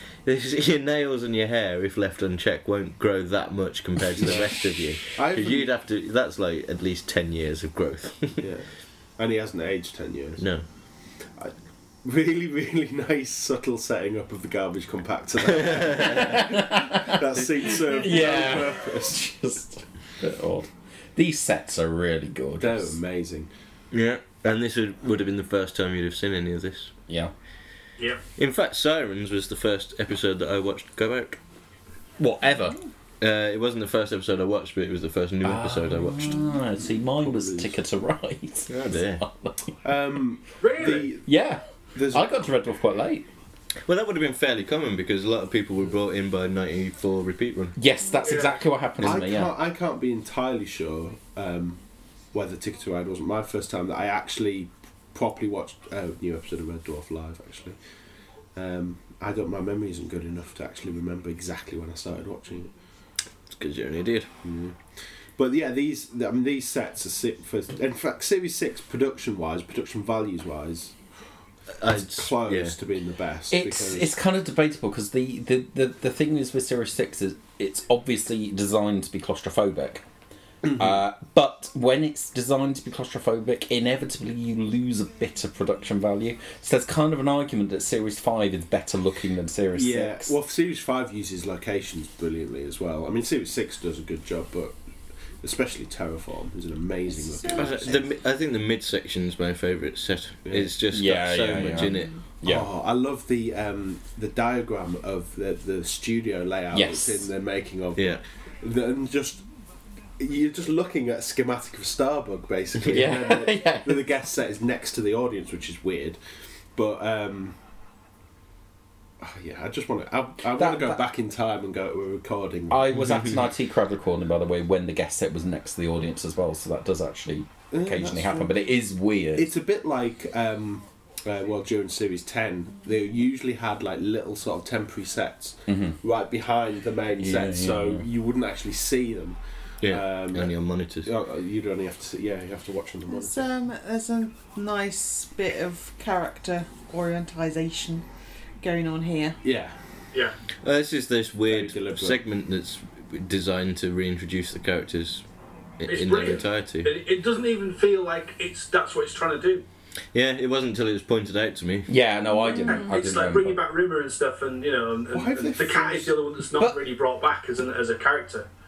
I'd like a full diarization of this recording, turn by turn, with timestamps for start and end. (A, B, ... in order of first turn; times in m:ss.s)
0:00.2-0:08.5 A
0:04.2-0:05.7 B
0:08.4-0:10.4 B
0:10.4-0:10.6 A
0:12.0-0:19.1 B
0:15.6-0:16.4 A
0:16.0-0:22.9 C
0:22.6-0:23.5 B
0:23.9-0:26.9 A
0:28.4-0:31.4 A
0:32.2-0:32.8 C
0:33.2-0:36.4 A
0:35.4-0:39.7 C
0:37.2-0:37.7 B
0:38.7-0:39.2 A
0:39.8-0:41.2 B
0:40.6-0:41.1 D
0:41.2-0:43.3 C
0:41.9-0:42.3 B
0:43.8-0:47.8 A
0:47.8-0:49.5 C
0:48.2-0:48.6 D
0:49.0-0:51.8 B
0:52.3-0:57.8 B
0:58.5-1:02.7 B
1:03.5-1:04.3 A
1:04.4-1:04.8 B
1:05.4-1:10.9 B
1:11.7-1:12.8 A
1:11.8-1:14.1 B
1:13.5-1:20.0 C
1:20.6-1:30.3 C
1:29.7-1:34.8 B
1:35.4-1:38.0 B
1:37.5-1:42.1 A
1:40.5-1:40.7 B
1:40.9-1:42.7 C
1:42.4-1:49.4 B
1:46.7-1:47.2 C
1:48.0-1:48.2 A
1:50.2-1:56.2 B
1:52.8-1:54.1 C
1:56.7-1:57.6 B
1:59.2-2:02.9 B
2:00.6-2:01.0 C
2:02.7-2:09.5 C
2:07.7-2:08.6 B
2:09.4-2:23.5 B
2:15.7-2:16.0 C
2:17.2-2:18.0 C
2:19.8-2:21.1 A
2:23.1-2:28.0 E
2:28.6-2:29.4 E
2:29.4-2:29.8 B
2:30.6-2:35.2 A
2:31.4-2:32.2 B
2:35.8-2:36.9 A
2:35.9-2:39.6 D
2:40.1-2:41.9 A
2:41.9-2:43.6 C
2:42.4-2:42.9 E
2:42.6-2:48.5 D
2:45.1-2:46.2 B